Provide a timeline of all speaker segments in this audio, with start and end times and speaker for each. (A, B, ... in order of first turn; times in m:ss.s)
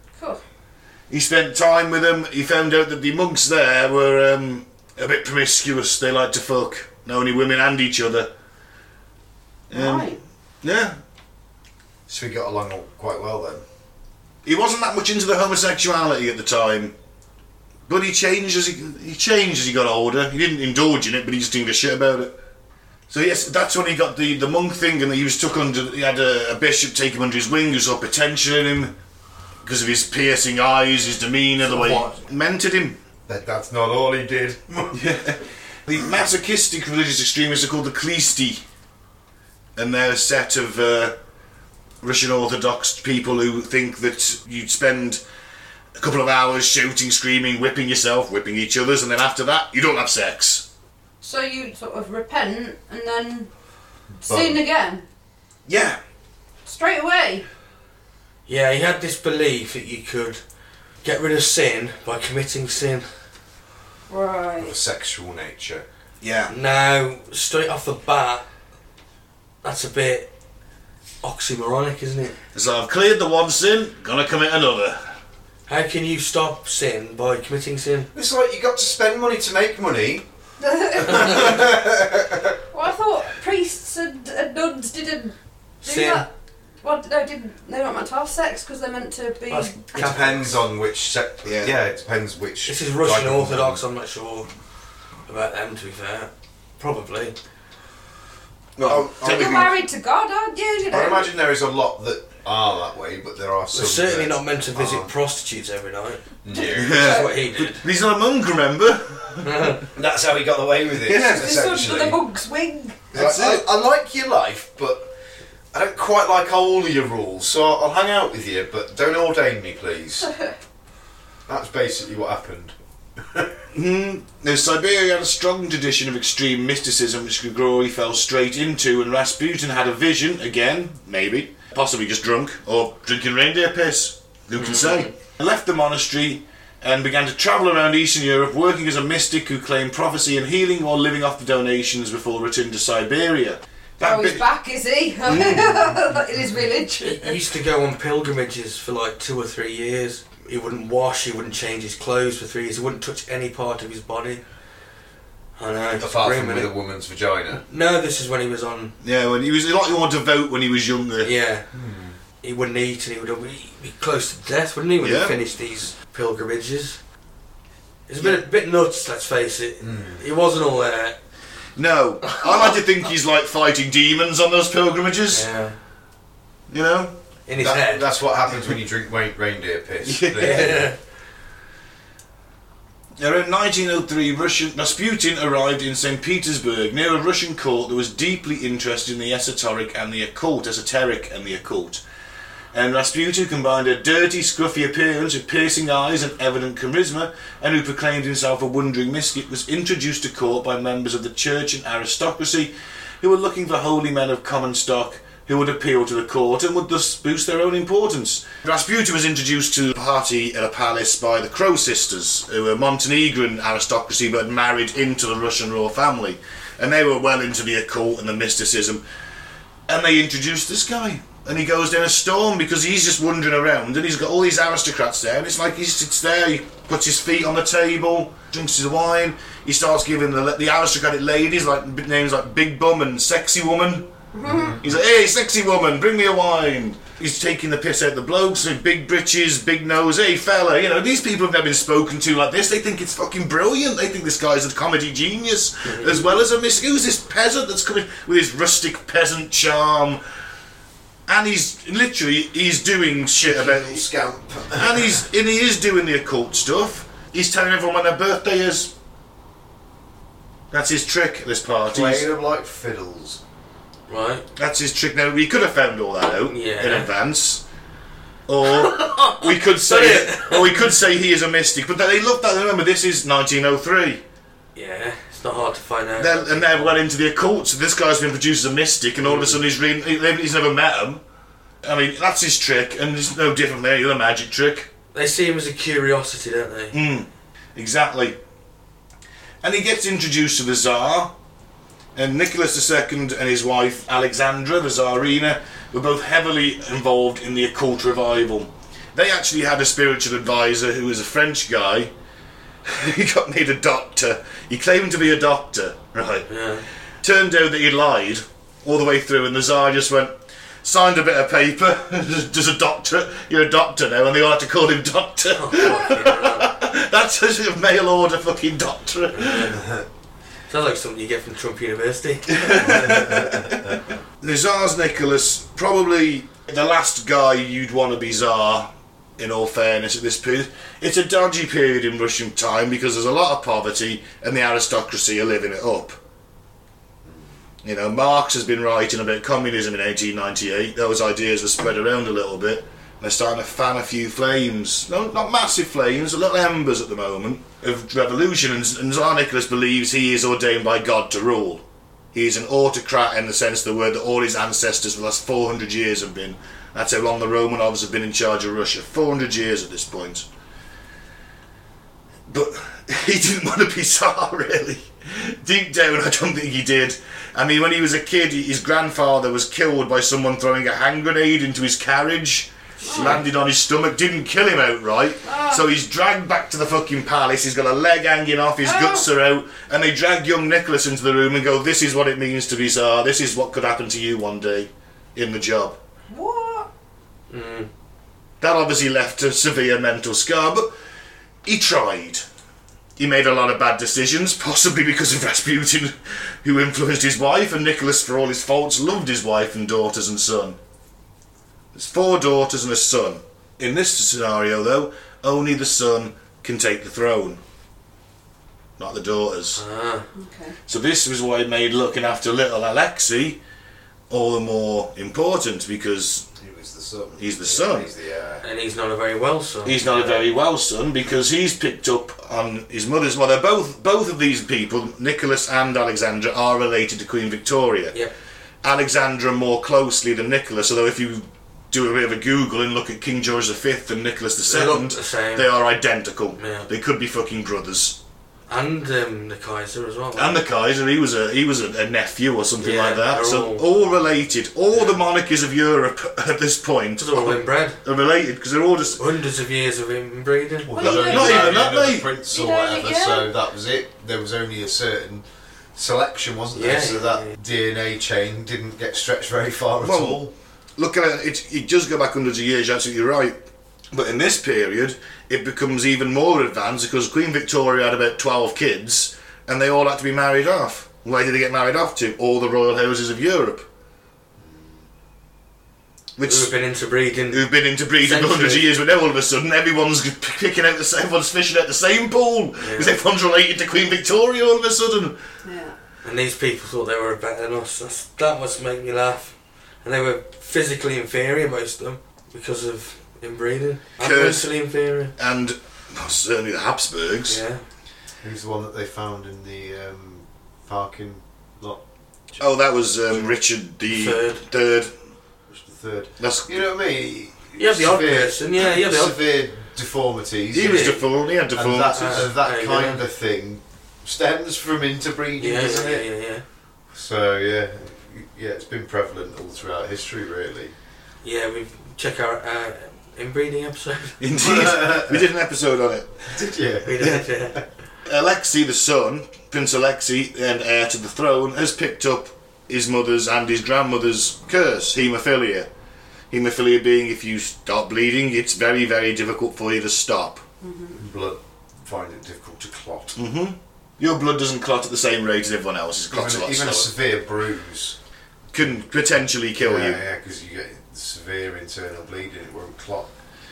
0:01.1-0:08.3 A
0:09.7-0:11.0 A
0:09.7-0:10.2 B
0:12.1-0:13.6 C
0:14.4-0:16.9 A
0:17.9-0:22.4 A
0:23.1-0:28.9 A
0:29.6-0:33.0 A
0:31.6-0:32.2 D
0:33.3-0:35.0 C
0:34.9-0:38.6 A
0:39.8-0:41.2 A
0:42.0-0:45.2 A
0:46.0-0:50.7 A
0:51.2-0:53.5 B
0:54.2-0:55.0 B
0:54.3-0:54.6 C
0:55.7-0:56.0 A
0:56.7-0:57.5 B
0:58.5-1:00.4 D
1:01.0-1:03.1 D
1:04.1-1:04.8 B
1:04.6-1:05.9 C
1:06.2-1:06.5 A
1:06.5-1:08.4 D
1:09.6-1:10.3 D
1:11.2-1:12.4 D
1:12.5-1:15.0 A
1:15.7-1:18.1 D
1:18.1-1:20.2 C
1:20.6-1:21.7 B
1:21.0-1:22.6 C
1:22.7-1:26.3 B
1:25.8-1:26.2 D
1:26.8-1:29.8 B
1:29.5-1:30.5 D
1:29.9-1:33.8 C
1:31.4-1:31.8 A
1:32.7-1:34.5 D
1:35.3-1:37.4 D
1:38.8-1:39.8 A
1:38.9-1:39.7 C
1:39.2-1:41.3 B
1:40.9-1:45.1 C
1:43.7-1:47.8 D
1:46.4-1:47.2 C
1:46.8-1:49.8 A
1:47.0-1:47.3 B
1:49.4-1:49.9 D
1:49.9-1:52.2 C
1:51.0-1:51.5 A
1:51.3-1:53.1 B
1:53.1-1:53.6 A
1:53.1-1:55.1 C
1:55.7-2:00.3 C
2:00.2-2:00.5 B
2:01.5-2:03.6 C
2:03.7-2:24.4 A
2:14.6-2:15.1 D
2:24.0-2:27.4 B
2:25.3-2:25.8 A
2:27.0-2:34.4 D
2:35.6-2:36.7 D
2:36.0-2:37.6 C
2:37.6-2:38.9 D
2:39.0-2:41.3 A
2:41.2-2:41.7 D
2:41.7-2:42.2 C
2:42.4-2:47.0 D
2:45.0-2:45.4 A
2:48.1-2:51.2 D
2:49.8-2:50.2 C
2:51.8-2:55.5 A
2:55.3-2:55.8 D
2:56.7-2:57.1 A
2:57.5-2:58.0 D
2:57.6-3:00.9 C
3:00.0-3:00.8 A
3:00.4-3:01.0 D
3:03.2-3:12.0 A
3:12.7-3:39.0 A
3:39.9-3:54.1 A
3:54.3-3:54.8 B
3:54.5-3:54.8 C
3:54.8-4:10.2 A
4:11.3-4:14.1 A
4:13.4-4:15.2 C
4:14.7-4:18.9 A
4:20.7-4:22.3 A
4:21.9-4:23.4 C
4:24.1-4:24.4 D
4:24.6-4:27.6 A
4:26.5-4:27.1 D
4:28.5-4:34.2 A
4:28.7-4:30.9 D
4:34.8-4:37.0 D
4:36.2-4:41.2 A
4:39.2-4:39.6 D
4:41.8-4:44.9 A
4:45.1-4:47.0 D
4:46.9-4:48.4 A
4:49.6-4:51.3 A
4:52.2-5:02.1 A
5:02.8-5:06.5 A
5:06.5-5:06.8 D
5:07.2-5:19.8 A
5:15.6-5:16.7 D
5:19.3-5:19.8 D
5:20.7-5:23.3 D
5:22.5-5:36.2 A
5:23.3-5:23.9 C
5:37.8-5:51.8 A
5:52.3-6:00.5 A
6:02.5-6:26.0 A
6:13.0-6:13.4 B
6:13.1-6:13.4 D
6:15.4-6:15.8 B
6:18.8-6:19.2 B
6:26.3-6:26.9 B
6:27.5-6:27.9 D
6:28.6-6:30.9 A
6:31.6-6:32.4 A
6:33.2-6:40.8 A
6:41.9-6:47.6 A
6:49.0-6:49.8 A
6:49.8-6:50.3 D
6:50.4-6:50.8 B
6:50.9-6:53.6 A
6:54.3-6:56.5 A
6:56.6-6:58.6 C
6:57.4-6:58.1 A
6:58.6-7:00.4 D
6:59.8-7:08.2 A
7:08.8-7:18.2 A
7:14.7-7:15.7 D
7:16.6-7:16.9 D
7:18.7-7:20.6 D
7:20.4-7:29.2 A
7:22.8-7:23.8 D
7:27.2-7:28.0 D
7:29.2-7:30.9 D
7:30.8-7:35.4 C
7:30.9-7:31.8 B
7:31.0-7:32.3 A
7:32.5-7:33.5 B
7:36.0-7:40.5 C
7:36.7-7:37.5 D
7:40.0-7:40.4 A
7:41.0-7:43.6 A
7:44.1-7:53.9 A
7:54.6-7:55.1 C
7:56.4-7:56.7 A
7:56.4-7:57.6 D
7:57.5-8:05.4 A
7:58.2-7:58.9 D
8:02.8-8:03.1 D
8:05.6-8:06.0 B
8:06.2-8:15.3 D
8:14.2-8:14.7 A
8:15.4-8:17.6 A
8:17.5-8:17.8 D
8:18.4-8:22.6 C
8:22.6-8:25.1 A
8:24.1-8:24.6 D
8:25.7-8:31.2 C
8:26.4-8:26.9 A
8:27.8-8:29.4 D
8:30.7-8:32.5 A
8:30.8-8:31.2 D
8:31.7-8:36.3 C
8:32.1-8:33.2 D
8:35.6-8:36.6 D
8:37.1-8:40.9 C
8:41.4-8:44.4 D
8:44.4-8:46.6 A
8:44.6-8:45.4 C
8:46.5-8:47.8 C
8:47.0-8:47.8 D
8:48.2-8:55.9 A
8:56.5-9:00.6 A
9:00.8-9:01.2 B
9:01.2-9:03.4 C
9:03.4-9:07.1 A
9:06.3-9:08.2 C
9:08.7-9:10.2 A
9:09.8-9:13.3 C